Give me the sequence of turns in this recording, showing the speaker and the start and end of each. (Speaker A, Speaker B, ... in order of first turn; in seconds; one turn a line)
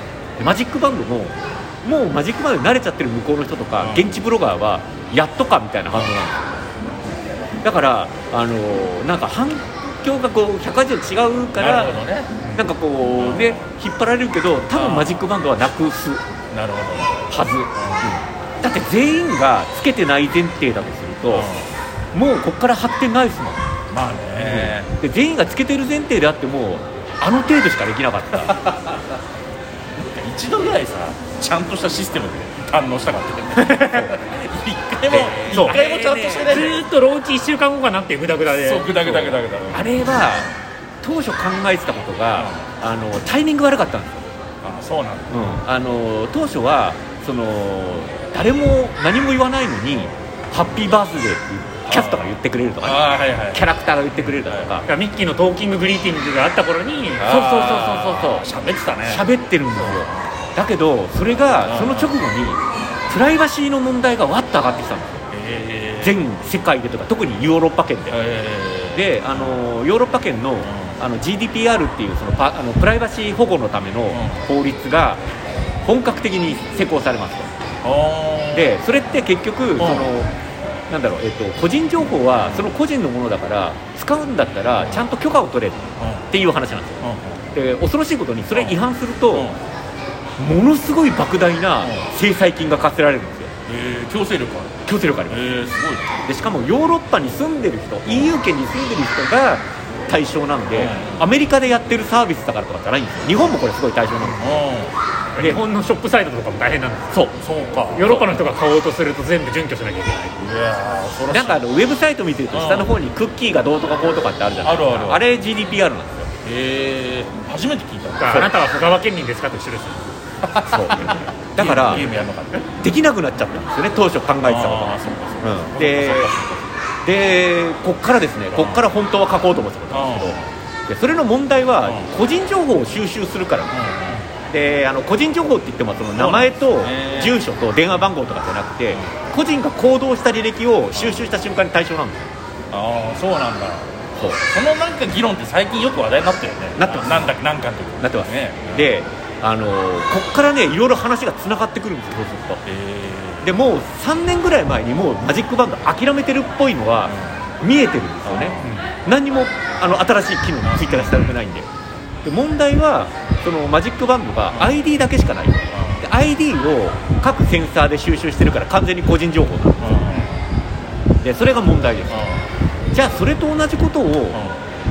Speaker A: 0.4-6.5
Speaker B: 3.8-4.1
Speaker A: 7.6-12.0
Speaker B: 11.6-12.5
Speaker A: 12.5-16.2
Speaker B: 13.2-13.6
Speaker B: 14.7-15.2
Speaker B: 16.5-18.2
Speaker A: 17.3-21.5
Speaker B: 21.3-21.7
Speaker A: 22.1-23.6
Speaker B: 23.9-24.9
Speaker A: 24.4-28.6
Speaker B: 29.9-36.8
Speaker A: 33.7-34.1
Speaker A: 35.1-36.6
Speaker C: 35.5-39.3
Speaker B: 38.6-40.5
Speaker A: 39.7-40.5
Speaker A: 41.0-44.3
Speaker B: 42.4-42.6
Speaker B: 44.6-45.5
Speaker A: 45.3-54.9
Speaker B: 51.9-54.8
Speaker C: 54.9-57.5
Speaker B: 57.2-59.2
Speaker A: 57.2-58.5
Speaker A: 59.0-65.2
Speaker B: 59.8-60.3
Speaker B: 61.6-62.1
Speaker B: 65.3-66.2
Speaker A: 66.0-68.2
Speaker B: 68.1-69.7
Speaker A: 68.9-75.2
Speaker B: 70.6-71.0
Speaker B: 74.1-74.4
Speaker A: 75.8-77.5
Speaker B: 77.8-78.7
Speaker A: 78.5-80.3
Speaker B: 79.8-80.1
Speaker A: 80.9-89.5
Speaker B: 82.4-82.7
Speaker B: 86.0-86.3
Speaker B: 87.0-87.4
Speaker B: 89.3-89.6
Speaker A: 90.4-93.5
Speaker B: 93.7-96.2
Speaker A: 94.8-95.5
Speaker A: 96.2-104.7
Speaker B: 100.7-101.3
Speaker B: 104.2-104.9
Speaker C: 105.4-107.2
Speaker A: 107.1-107.4
Speaker B: 107.4-108.3
Speaker C: 107.9-110.3
Speaker B: 110.4-111.6
Speaker A: 111.3-116.3
Speaker B: 112.5-112.9
Speaker B: 114.6-115.2
Speaker B: 116.4-118.5
Speaker C: 118.2-120.1
Speaker B: 120.5-122.7
Speaker A: 120.6-122.1
Speaker A: 122.7-126.3
Speaker B: 124.4-126.7
Speaker A: 127.0-142.3
Speaker B: 128.5-128.8
Speaker B: 129.9-130.5
Speaker B: 131.8-132.1
Speaker B: 133.7-134.2
Speaker B: 136.2-137.4
Speaker B: 140.9-141.2
Speaker B: 142.7-148.9
Speaker A: 146.8-147.3
Speaker A: 148.0-152.6
Speaker B: 152.6-153.5
Speaker A: 153.4-161.7
Speaker B: 157.1-157.4
Speaker B: 158.2-158.8
Speaker B: 160.6-161.3
Speaker A: 162.2-170.2
Speaker B: 164.5-164.8
Speaker B: 165.7-166.0
Speaker B: 169.8-170.4
Speaker A: 171.2-172.3
Speaker B: 172.1-172.5
Speaker A: 172.9-174.4
Speaker B: 174.3-174.6